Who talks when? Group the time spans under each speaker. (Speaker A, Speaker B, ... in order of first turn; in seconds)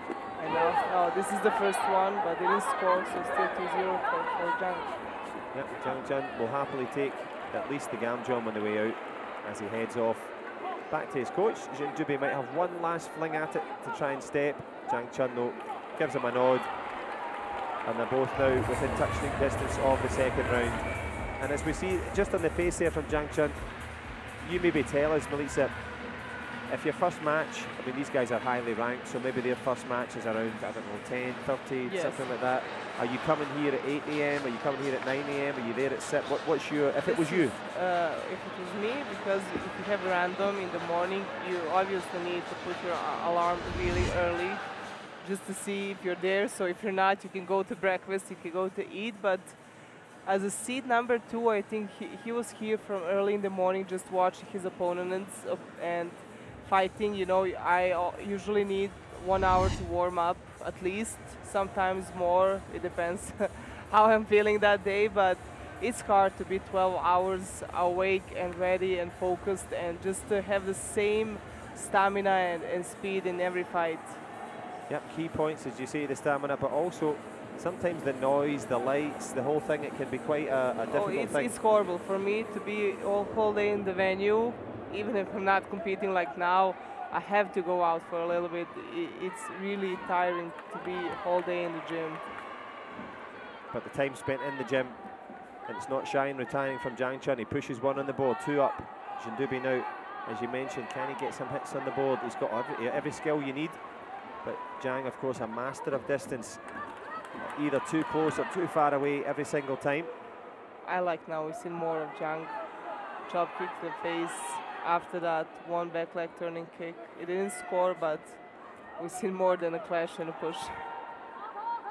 Speaker A: 0.4-5.0, 31.8-32.3, 37.0-44.6, 45.2-49.6, 50.2-74.2, 80.9-92.2, 110.8-112.6, 113.3-118.4, 119.0-120.8
Speaker B: 5.5-10.4, 10.9-16.7, 17.8-20.9, 21.4-23.6, 24.4-25.8, 26.7-37.6, 74.9-81.6, 93.7-95.0, 95.7-103.8, 104.4-106.6, 107.4-110.1